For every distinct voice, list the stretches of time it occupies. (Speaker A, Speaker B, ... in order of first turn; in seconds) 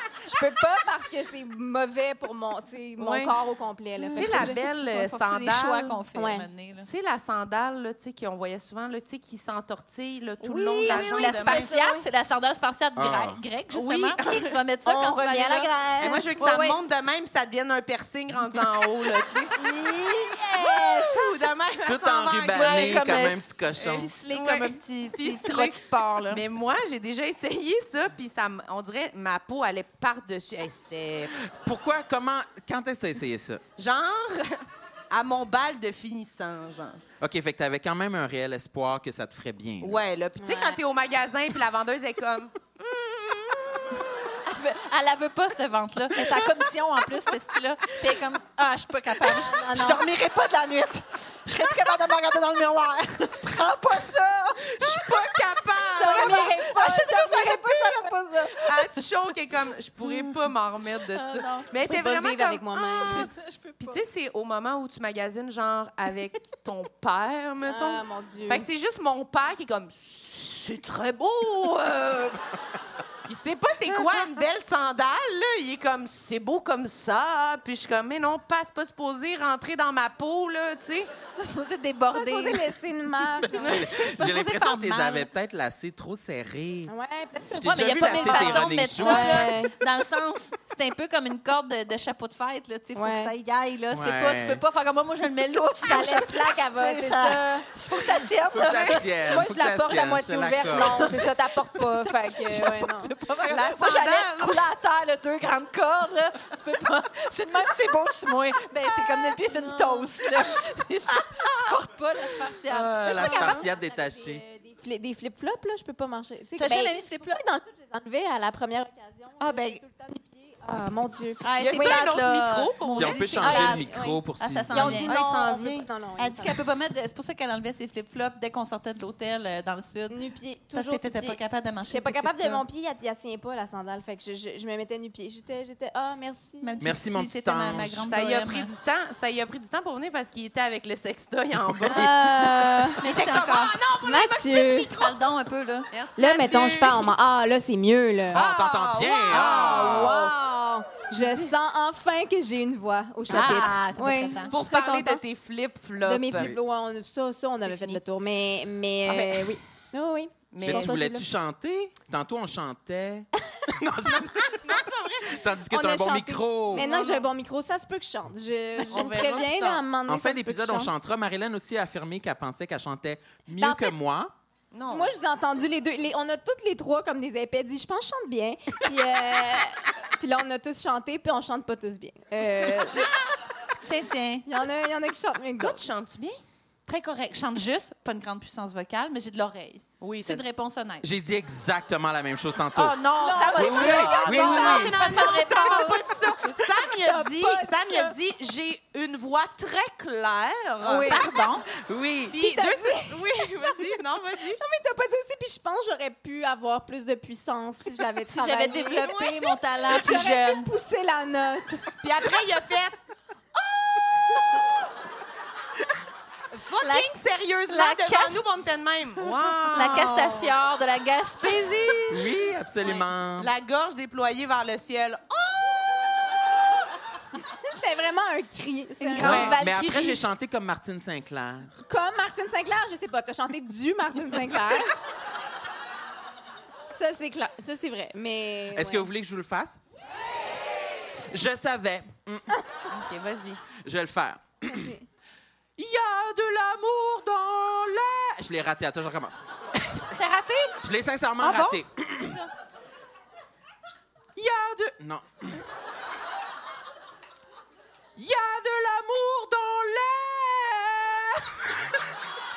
Speaker A: 0.2-4.6, 6.1-6.5, 10.4-12.1, 14.8-16.3, 40.4-40.8, 49.2-50.0, 55.9-58.2, 61.8-63.3, 67.7-68.7, 82.1-83.9, 86.9-89.7, 93.0-93.3, 95.8-97.7, 99.3-103.1, 109.7-110.0, 113.0-122.1, 123.4-126.6, 130.1-136.8, 141.9-143.0, 144.0-144.9, 146.2-148.4, 149.3-155.2, 156.0-161.3, 165.7-170.9, 173.6-173.9, 174.9-183.1, 184.5-185.8, 193.2-198.1, 200.8-201.3, 202.4-203.9, 204.6-209.2, 209.9-211.9, 214.0-214.4, 227.6-229.5, 231.9-234.9, 236.9-239.1, 244.7-245.0
Speaker B: 3.0-3.3, 4.1-6.0, 6.8-11.7, 13.7-14.6, 16.0-19.5, 20.6-23.2, 23.8-31.3, 33.8-37.0, 39.8-44.0, 54.7-56.6, 58.5-63.3, 63.8-72.4, 73.3-81.1, 103.5-104.6, 111.2-111.7, 121.6-123.3, 125.0-125.9, 138.1-142.1, 143.0-145.2, 145.9-146.6, 148.3-150.3, 151.1-151.5, 153.3-156.5, 157.6-158.0, 159.1-159.6, 160.5-161.2, 164.1-165.4, 166.7-167.3, 168.9-169.8, 174.7-175.2, 185.6-186.4, 190.0-190.4, 193.6-201.2, 202.3-204.6, 209.0-209.3, 212.0-213.0, 216.5-220.5, 222.8-225.8, 229.2-229.5, 242.9-243.6
Speaker C: 4.0-6.9, 10.8-15.7, 16.4-16.8, 19.5-21.3, 22.5-26.4, 44.5-59.0, 60.0-60.3, 61.1-61.7, 63.0-64.0, 81.4-82.7, 83.6-85.3, 87.6-99.1, 100.7-113.7, 116.6-117.4, 119.4-119.8, 121.4-125.1, 126.2-130.2, 130.7-132.6, 136.6-138.8, 143.0-143.8, 145.0-147.1, 153.3-155.0, 183.8-184.5, 186.9-191.1, 192.8-196.1, 201.0-201.7, 208.3-210.7, 216.8-217.2, 217.7-218.4, 219.7-222.3, 229.0-230.3, 250.1-250.8, 251.4-251.8
Speaker D: 13.0-13.4, 21.9-24.1, 31.4-33.6, 37.2-40.0, 83.5-86.9, 87.5-89.5, 93.9-94.6, 98.5-101.2, 112.7-114.4, 122.9-125.0, 136.8-138.1, 141.7-142.1, 148.3-150.3, 156.3-156.6, 160.6-166.9, 170.1-174.3, 191.0-193.0, 193.5-194.9, 201.7-202.4, 222.1-223.5, 229.2-231.8, 238.7-239.8, 241.3-242.5, 243.8-244.9, 245.8-250.1, 250.8-252.4, 254.4-255.6, 258.2-262.1